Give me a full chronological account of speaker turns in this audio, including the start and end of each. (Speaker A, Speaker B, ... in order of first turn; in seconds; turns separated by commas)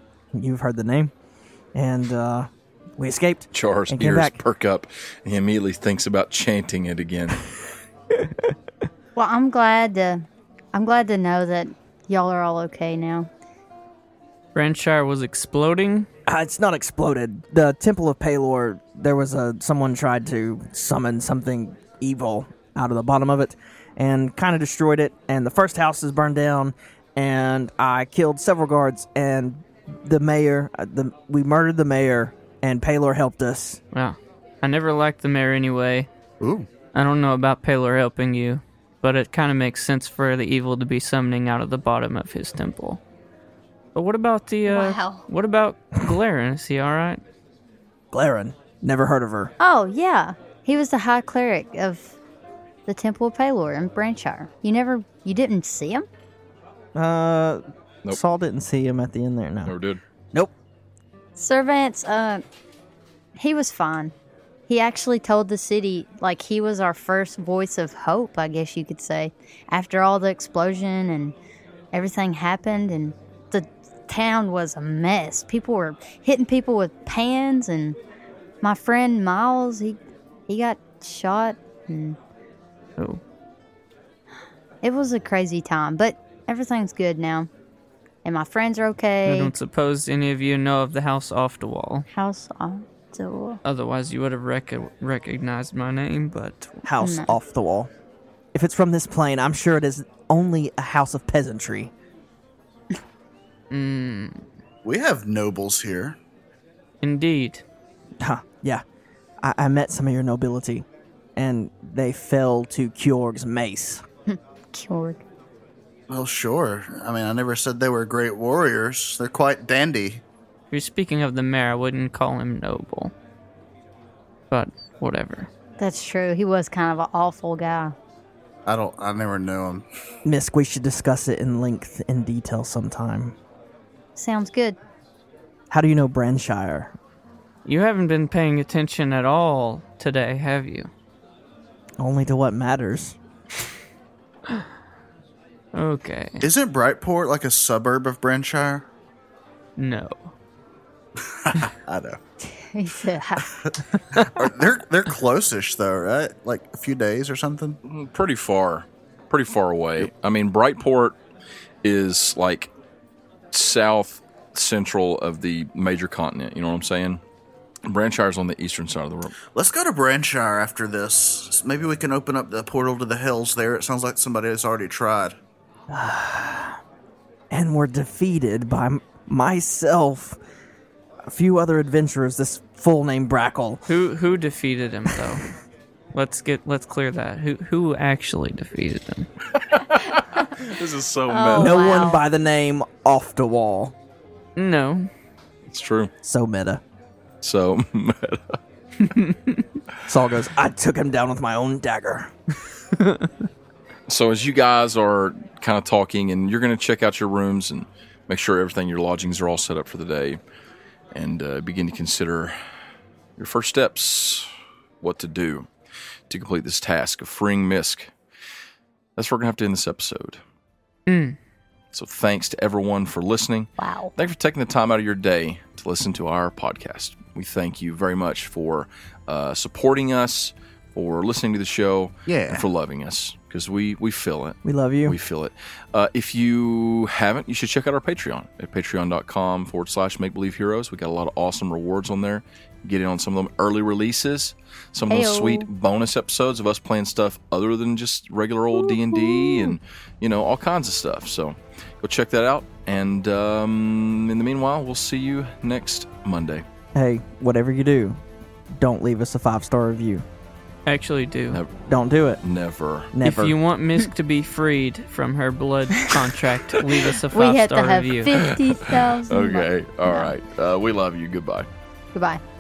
Speaker A: 0.3-1.1, Speaker A: 1.8-4.4, Speaker B: 3.5-7.4, Speaker A: 8.1-8.5, Speaker C: 9.2-13.3, Speaker D: 14.6-16.1, Speaker A: 16.3-33.8, Speaker D: 33.9-36.1, Speaker E: 36.4-36.7, Speaker D: 36.9-43.0, Speaker D: 44.0-47.2, Speaker C: 44.7-45.2, Speaker A: 48.1-49.5, Speaker C: 49.6-52.2, Speaker C: 52.9-56.1, Speaker A: 57.0-59.7, Speaker B: 59.7-60.0, Speaker C: 61.4-62.4, Speaker C: 63.4-64.1, Speaker C: 64.7-71.3, Speaker C: 71.9-78.0, Speaker C: 78.6-82.2, Speaker C: 84.8-87.5, Speaker C: 88.2-89.5, Speaker D: 89.2-92.1, Speaker C: 92.1-93.6, Speaker D: 93.7-96.8, Speaker A: 96.8-97.9, Speaker C: 97.0-97.3, Speaker A: 98.5-101.9, Speaker D: 103.7-104.5, Speaker E: 104.8-106.2, Speaker D: 107.0-107.6, Speaker A: 108.2-108.8, Speaker A: 109.4-114.0, Speaker C: 114.3-115.2, Speaker E: 116.1-120.2, Speaker D: 120.7-123.1, Speaker D: 124.5-125.5, Speaker C: 125.8-127.9, Speaker E: 128.7-129.8, Speaker A: 130.2-133.4, Speaker C: 134.2-134.8, Speaker A: 135.7-136.9, Speaker D: 137.7-140.9, Speaker A: 142.0-143.2, Speaker D: 145.7-146.5, Speaker E: 146.4-148.8, Speaker D: 149.8-150.3, Speaker E: 151.2-152.2, Speaker C: 152.5-153.6, Speaker E: 153.5-157.8, Speaker B: 157.8-161.2, Speaker B: 161.8-162.7, Speaker B: 163.5-167.2, Speaker B: 167.8-169.3, Speaker E: 169.6-175.4, Speaker A: 175.9-176.8, Speaker A: 177.5-180.4, Speaker A: 181.3-183.8, Speaker D: 183.9-185.5, Speaker D: 186.1-189.3, Speaker B: 189.6-192.1, Speaker C: 191.3-192.2, Speaker A: 191.6-193.9, Speaker D: 194.6-195.1, Speaker B: 195.7-196.1, Speaker A: 196.2-196.8, Speaker B: 197.4-198.6, Speaker D: 199.1-199.6, Speaker A: 200.1-202.3, Speaker D: 203.0-203.3, Speaker B: 204.1-210.4, Speaker B: 211.1-212.6, Speaker B: 213.4-214.5, Speaker B: 215.0-215.7, Speaker B: 216.3-218.1, Speaker B: 219.2-220.4, Speaker D: 221.1-221.4, Speaker B: 221.9-256.6, Speaker C: 223.8-224.1, Speaker E: 232.3-232.6, Speaker A: 234.6-235.2, Speaker C: 245.1-245.7, Speaker C: 249.0-249.8, Speaker A: 256.9-258.2, Speaker A: 258.8-260.2, Speaker D: 260.9-261.6, Speaker A: 261.9-262.4, Speaker B: 262.4-263.1, Speaker A: 263.1-263.6, Speaker D: 263.2-268.5, Speaker C: 267.3-270.3, Speaker B: 268.8-271.7, Speaker C: 272.1-272.4